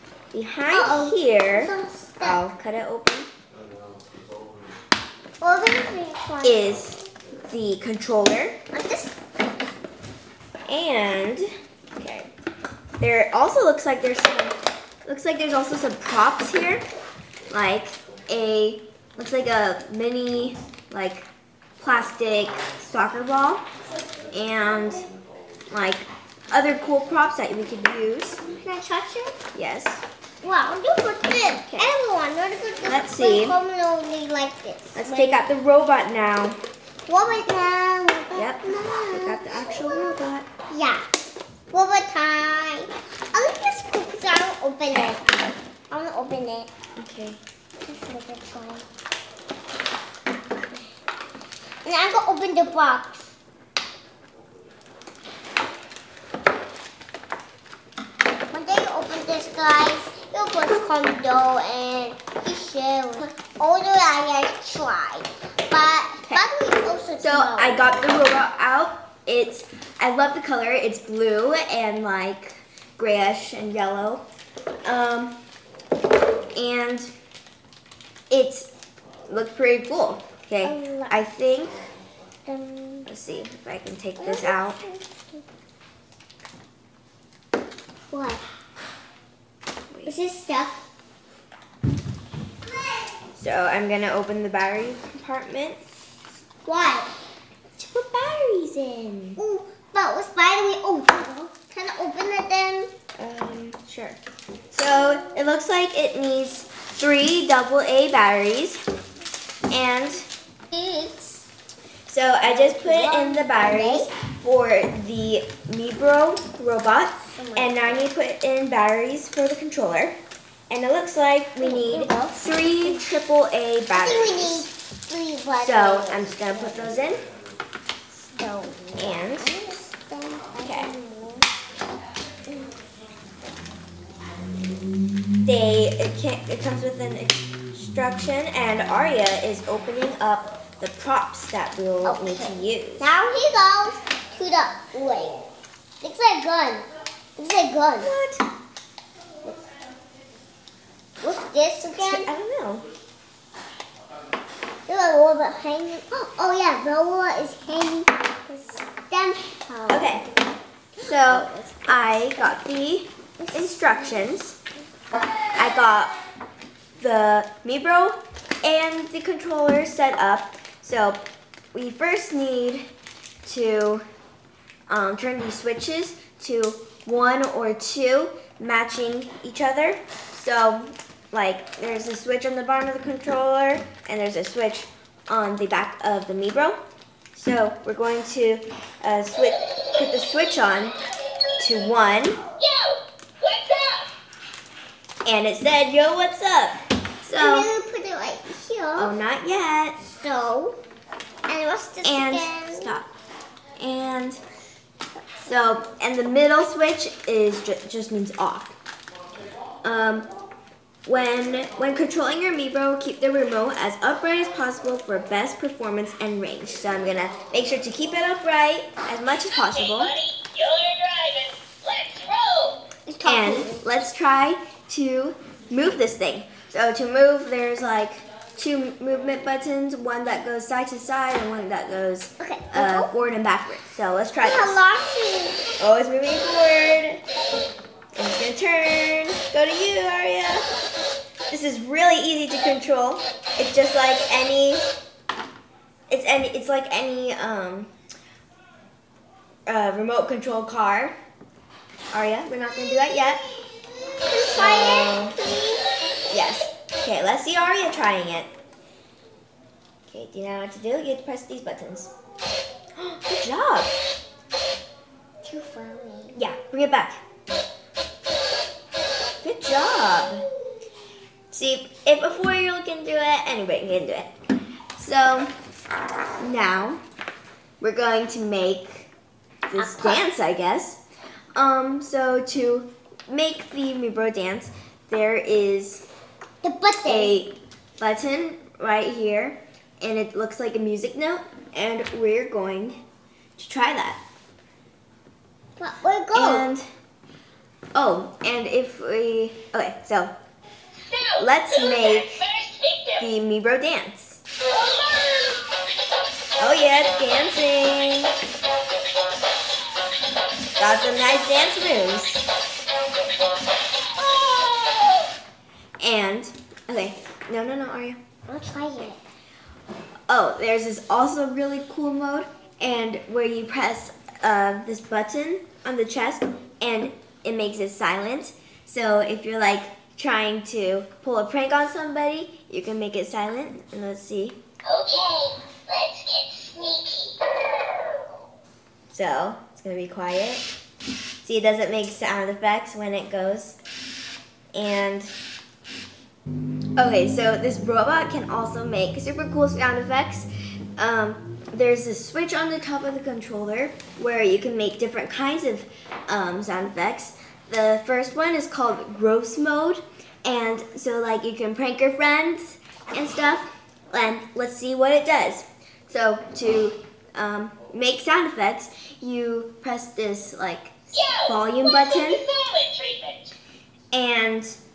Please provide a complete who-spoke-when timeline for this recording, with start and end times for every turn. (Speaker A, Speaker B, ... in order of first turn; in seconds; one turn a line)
Speaker A: 0.3-3.3
Speaker B: 0.7-2.4
Speaker B: 5.4-6.7
Speaker A: 6.4-8.6
Speaker B: 8.7-9.2
Speaker A: 10.7-12.3
Speaker A: 13.0-16.8
Speaker A: 17.5-21.3
Speaker A: 21.8-23.6
Speaker A: 24.3-25.1
Speaker A: 25.7-28.4
Speaker B: 28.5-29.4
Speaker A: 29.5-30.0
Speaker B: 30.4-35.5
Speaker A: 31.6-31.9
Speaker A: 32.8-33.6
Speaker A: 34.9-36.6
Speaker B: 37.1-40.2
Speaker A: 38.3-40.5
Speaker B: 40.7-41.0
Speaker B: 41.7-45.2
Speaker A: 44.9-45.2
Speaker B: 45.9-46.7
Speaker A: 47.0-47.4
Speaker B: 47.8-48.9
Speaker B: 51.8-53.3
Speaker B: 58.5-67.9
Speaker A: 67.2-74.2
Speaker A: 74.8-75.3
Speaker A: 76.5-77.1
Speaker A: 78.3-78.7
Speaker A: 79.3-81.8
Speaker B: 80.6-81.2
Speaker B: 82.5-83.1
Speaker A: 83.1-84.8
Speaker B: 84.2-85.4
Speaker B: 88.1-88.4
Speaker B: 90.0-90.8
Speaker A: 93.3-95.8
Speaker B: 96.6-97.1
Speaker A: 97.8-99.4
Speaker B: 99.4-102.9
Speaker A: 103.2-104.2
Speaker A: 104.7-108.8
Speaker A: 109.7-110.3
Speaker B: 110.7-111.4
Speaker A: 112.0-120.2
Speaker B: 112.4-114.1
Speaker B: 117.3-118.0
Speaker A: 120.7-124.7
Speaker B: 121.6-123.0
Speaker B: 123.9-127.0
Speaker A: 125.6-127.2
Speaker B: 128.3-131.5
Speaker A: 129.0-129.5
Speaker A: 130.6-130.9
Speaker A: 135.4-143.2
Speaker B: 142.0-145.4
Speaker B: 146.0-148.1
Speaker A: 148.0-148.4
Speaker B: 151.2-152.3
Speaker A: 151.9-152.9
Speaker B: 154.8-160.2
Speaker A: 159.9-160.2
Speaker B: 161.0-162.6
Speaker A: 161.0-164.6
Speaker B: 163.4-164.2
Speaker A: 165.5-166.1
Speaker A: 167.0-171.2
Speaker A: 171.7-172.8
Speaker A: 173.4-174.0
Speaker A: 174.9-186.8
Speaker A: 187.3-190.9
Speaker A: 191.6-192.4
Speaker C: 192.6-194.1
Speaker A: 195.2-197.7
Speaker B: 197.3-199.1
Speaker A: 198.9-200.0
Speaker B: 200.0-200.8
Speaker B: 201.4-202.9
Speaker A: 202.0-203.1
Speaker A: 203.8-204.4
Speaker A: 205.4-208.8
Speaker A: 209.8-210.3
Speaker A: 211.0-220.1
Speaker C: 219.8-222.8
Speaker B: 223.1-223.8
Speaker A: 223.2-234.8
Speaker B: 232.4-233.1
Speaker B: 234.4-235.7
Speaker A: 235.8-237.2
Speaker A: 238.2-240.7
Speaker A: 241.5-244.8
Speaker A: 246.1-247.9
Speaker A: 249.7-251.1
Speaker A: 252.1-253.4
Speaker B: 254.2-255.8
Speaker A: 254.4-255.3
Speaker A: 256.3-258.5
Speaker A: 260.1-262.1
Speaker A: 262.9-263.9
Speaker B: 265.4-266.4
Speaker A: 266.3-267.2
Speaker A: 269.4-270.4
Speaker A: 271.5-274.3
Speaker A: 274.9-275.5
Speaker A: 276.4-277.0
Speaker A: 277.8-279.1
Speaker A: 279.7-281.0
Speaker B: 279.8-280.2
Speaker A: 281.5-286.0
Speaker B: 286.6-287.4
Speaker A: 287.0-293.0
Speaker A: 293.6-294.2
Speaker B: 295.8-296.7
Speaker A: 296.3-296.9
Speaker A: 297.9-300.3
Speaker A: 301.4-302.5
Speaker C: 301.9-303.1
Speaker A: 303.2-304.4
Speaker C: 304.9-305.6
Speaker A: 306.6-308.3
Speaker A: 310.8-312.5
Speaker A: 316.0-318.2
Speaker B: 318.5-319.2
Speaker A: 320.3-334.6
Speaker C: 334.9-337.4
Speaker A: 339.1-340.7
Speaker A: 341.4-343.8
Speaker A: 344.7-345.3
Speaker A: 347.0-372.5
Speaker C: 371.2-371.4
Speaker C: 372.1-373.5
Speaker A: 374.1-374.8